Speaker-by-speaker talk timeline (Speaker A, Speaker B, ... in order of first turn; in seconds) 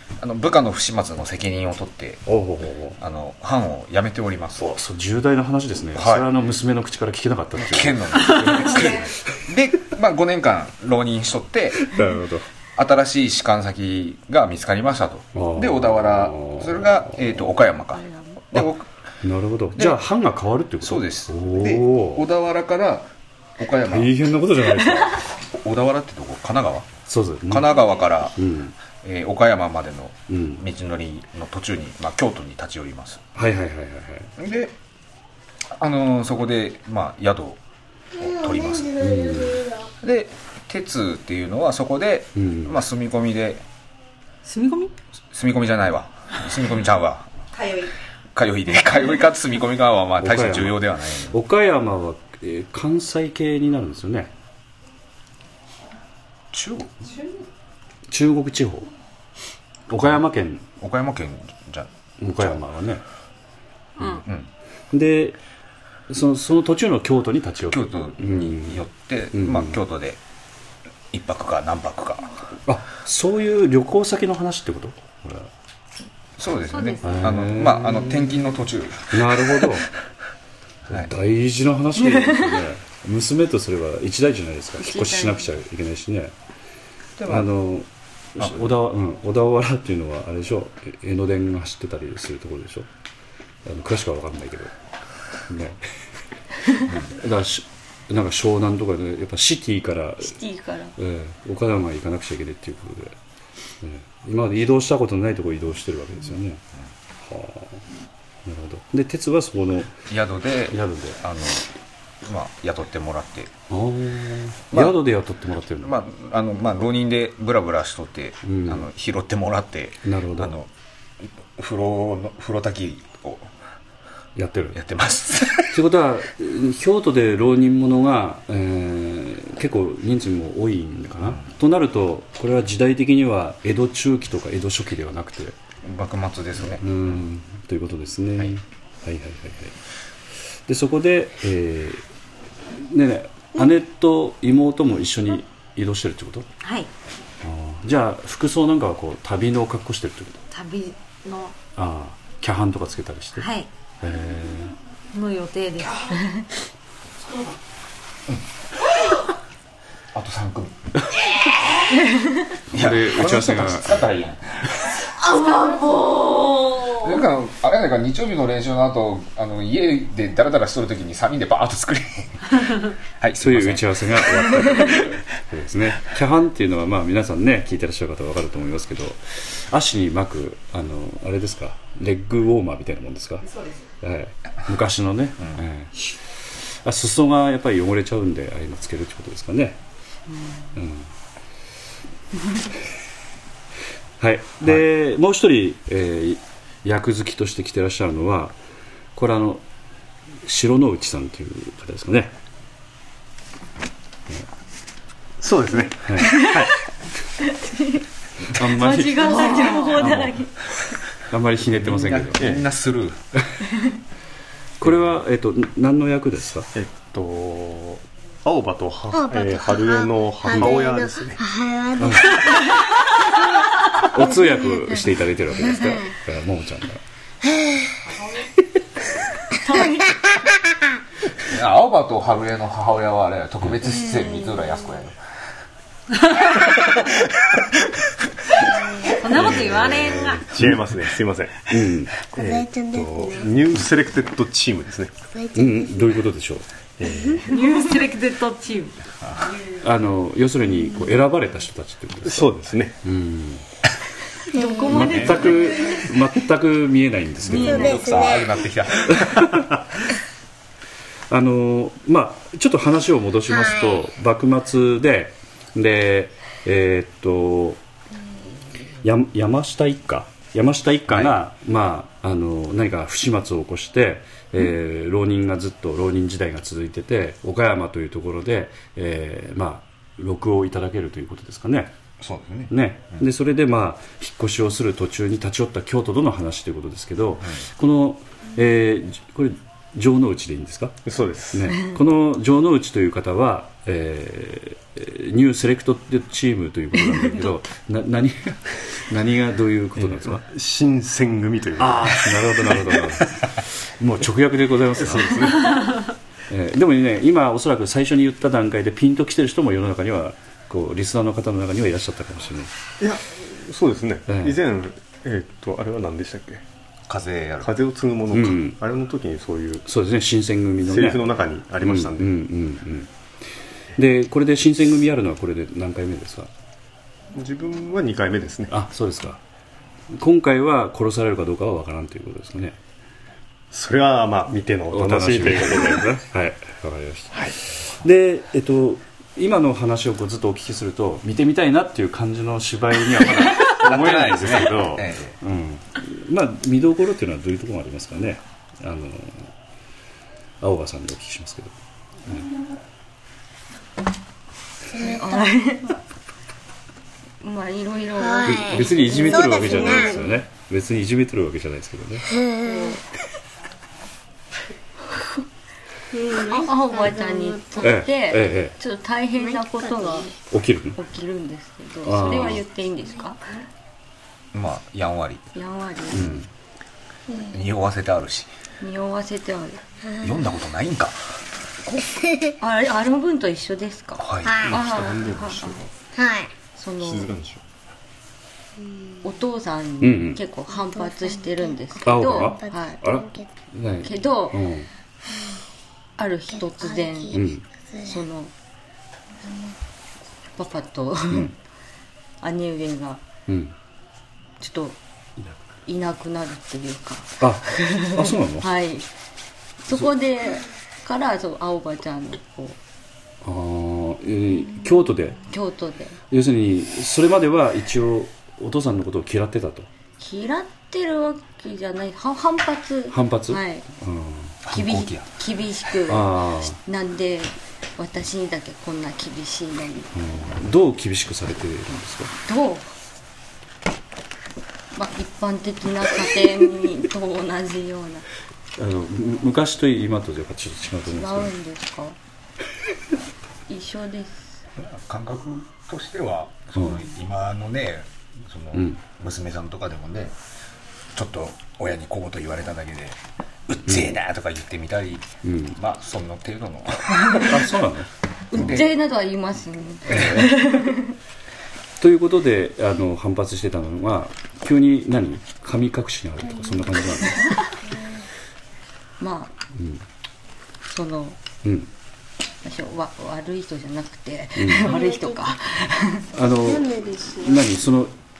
Speaker A: 0.2-2.3, 3.0-4.7, 5.9-6.2, 7.6-11.9, 12.8-18.9, 20.8-24.1, 25.4-26.9, 27.5-28.4, 29.0-33.2, 34.4-34.7, 35.8-37.6, 38.1-39.1, 40.0-43.6, 45.3-47.3, 48.3-51.4, 56.5-56.9, 60.0-60.2, 60.8-62.6, 64.0-64.5, 67.7-70.2, 71.1-72.3, 76.4-79.6, 87.2-87.5, 88.4-88.7, 110.1-111.7, 112.2-113.5, 114.7-115.0, 115.8-120.7, 121.5-123.5, 124.7-125.8, 135.8-136.9, 160.1-160.7, 162.7-164.9, 166.9-175.1, 211.8-213.2, 231.4-235.2, 249.2-249.6, 255.0-255.5, 257.7-259.7, 282.2-283.2, 317.1-317.7, 343.7-345.3, 374.5-375.4, 377.4-378.5, 380.2-381.2, 384.2-385.1, 424.6-425.3, 444.8-450.3, 451.1-457.6, 458.5-458.9
Speaker B: 2.2-3.0, 4.5-8.6, 11.8-12.4, 15.3-17.4, 18.5-22.3, 23.9-25.2, 27.1-27.7, 28.4-28.7, 30.3-30.6, 33.3-34.3, 39.0-39.7, 42.4-42.8, 50.2-54.3, 58.1-58.9, 59.9-60.6, 62.2-63.0, 64.9-65.4, 66.1-69.8, 72.7-75.5, 77.0-78.4, 79.1-79.9, 80.9-86.3, 87.3-92.9, 93.7-94.7, 95.5-95.8, 97.0-100.4, 101.0-103.2, 103.8-106.6, 107.2-107.8, 108.5-110.0, 110.7-111.2, 113.7-116.0, 118.4-118.9, 120.0-120.6, 124.3-124.8, 125.7-135.6, 136.6-139.7, 140.7-142.0, 142.7-146.5, 147.4-150.4, 151.8-153.5, 154.0-154.8, 162.7-164.1, 173.4-183.5, 184.0-186.1, 186.6-189.8, 190.7-191.1, 194.2-198.6, 199.2-199.6, 200.4-202.3, 206.0-206.4, 208.6-210.5, 211.3-212.6, 214.8-216.7, 222.0-222.4, 224.0-227.0, 240.3-240.8, 241.7-242.2, 245.5-246.7, 249.8-253.6, 254.9-257.9, 261.3-267.8, 269.0-281.9, 282.7-291.0, 291.5-300.4, 301.8-305.8, 306.5-312.7, 314.3-314.6, 318.3-318.8, 319.9-323.1, 324.0-326.5, 328.7-329.4, 330.1-332.8, 334.9-349.5, 350.6-351.7, 352.2-352.5, 358.4-362.4, 367.8-368.7, 370.5-371.0, 372.0-372.6, 376.1-376.5, 390.0-390.4, 392.0-394.9, 397.3-397.6, 403.5-403.7, 407.4-408.7, 413.4-415.4, 416.3-419.9, 423.1-424.6, 426.1-426.8, 430.1-432.3, 438.8-441.5, 448.7-449.0, 453.9-454.2, 455.4-455.8, 457.4-458.8, 460.1-460.7, 462.0-467.6, 469.7-470.0, 471.6-471.9, 474.6-475.0, 476.3-478.1
Speaker C: 17.9-18.4, 82.3-82.6, 84.8-85.5, 100.3-100.9, 165.4-166.8, 206.2-206.7, 207.4-208.0, 208.7-210.7, 229.6-230.2, 254.5-256.0, 257.4-258.1, 354.9-356.0, 357.4-359.2, 362.6-363.0, 366.4-370.4, 370.9-373.4, 375.5-376.4, 378.8-379.8, 382.6-385.8, 386.8-387.3, 389.2-393.0, 394.0-394.6, 396.2-397.4, 398.0-398.5, 400.6-401.5, 402.4-403.2, 404.6-405.0, 405.8-409.1, 409.8-412.8, 415.5-416.2, 420.2-423.9, 424.7-430.1, 432.4-432.9, 434.9-438.2, 441.1-442.1, 443.7-444.6, 458.5-461.1, 469.2-469.5, 470.9-471.4, 472.6-476.3
Speaker D: 38.2-39.9, 219.1-222.8, 234.1-234.5, 238.8-239.1, 242.3-243.6, 245.3-246.0, 254.5-255.1, 257.6-258.5, 263.6-264.0, 354.9-355.5, 358.2-360.3, 362.4-362.9, 366.1-367.9, 369.6-370.4, 382.2-382.5, 384.4-384.7, 386.1-386.5, 388.8-389.2, 390.8-393.5, 396.7-397.3, 397.9-398.2, 399.4-399.8, 466.6-467.2, 467.9-468.2, 474.8-475.4, 476.5-477.6
Speaker E: 44.4-44.9, 47.5-47.9, 64.0-64.2, 76.7-77.2, 146.6-146.9, 150.5-151.6, 153.4-153.7, 155.1-156.1, 239.1-240.4, 247.5-248.9
Speaker F: 205.4-206.8, 216.7-221.4, 239.1-241.7, 242.3-245.2, 247.0-247.4, 252.2-252.9, 291.0-291.6, 300.0-302.5, 304.9-306.0, 313.0-316.6, 317.6-319.8, 320.9-322.4, 327.3-328.8, 333.7-336.2, 384.8-385.9, 387.0-387.6